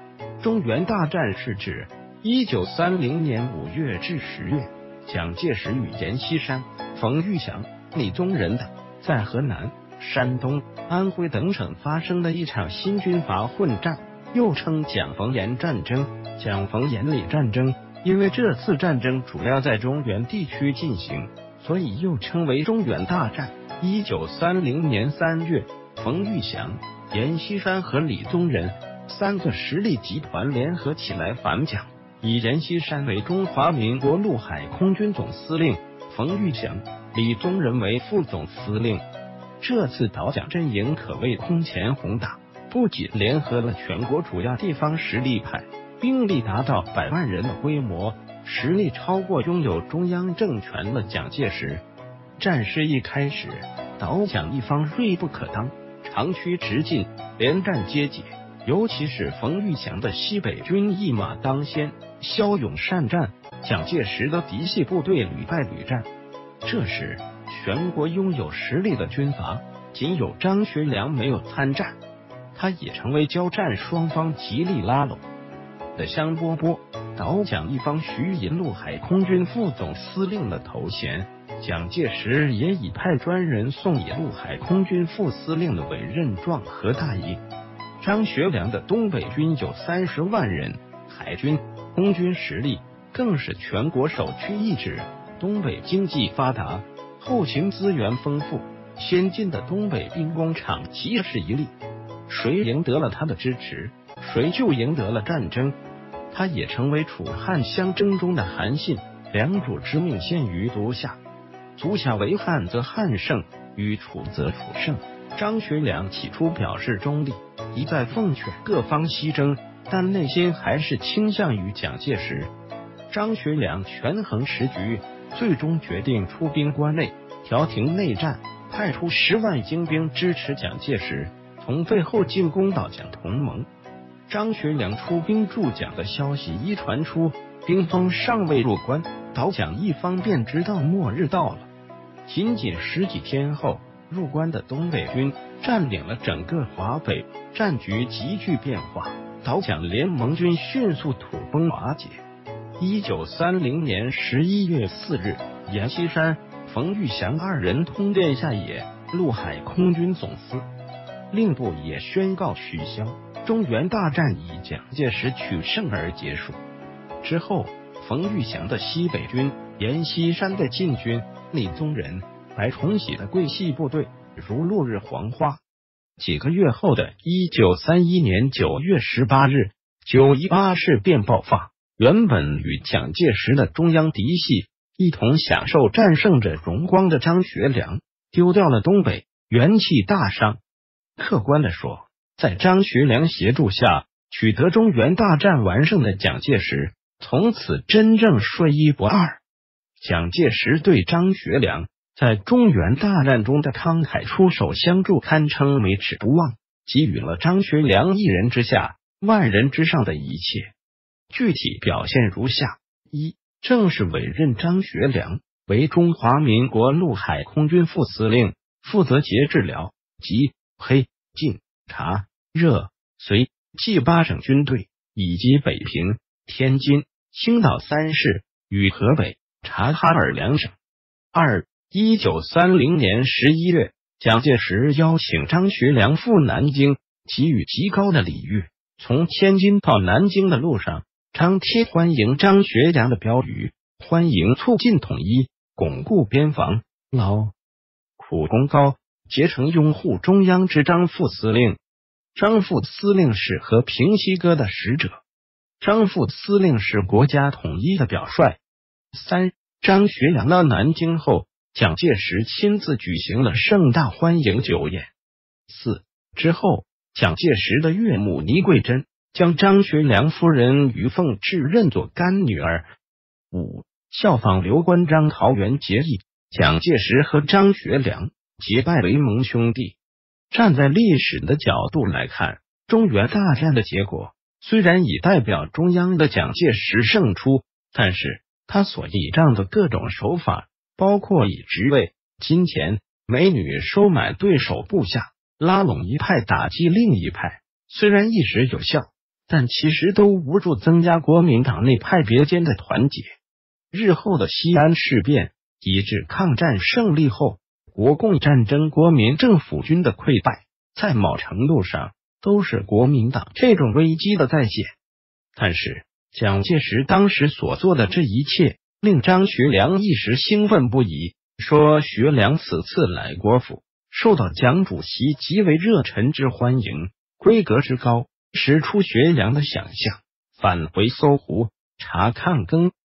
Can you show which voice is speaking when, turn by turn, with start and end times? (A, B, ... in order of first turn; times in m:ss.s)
0:00.4-0:39.0 A
0:39.6-0:51.8 A
0:52.4-1:06.1 A
1:06.6-1:12.0 A
1:12.5-1:15.2 A
1:15.9-1:27.4 A
1:28.0-1:41.7 A
1:42.3-1:45.8 A
1:46.3-1:51.2 A
1:51.8-2:02.5 A
2:03.1-2:13.7 A
2:14.3-2:21.7 A
2:22.2-2:32.2 A
2:32.8-2:40.6 A
2:41.3-2:46.6 A
2:47.2-2:55.6 A
2:56.2-3:10.6 A
3:11.2-3:19.4 A
3:20.0-3:30.7 A
3:31.3-3:50.7 A
3:51.3-4:07.5 A
4:08.2-4:11.8 A
4:12.3-4:15.2 A
4:15.8-4:18.6 A
4:19.1-4:25.1 A
4:25.7-4:32.8 A
4:33.5-4:40.0 A
4:40.5-5:03.3 A
5:03.9-5:14.9 A
5:15.5-5:32.9 A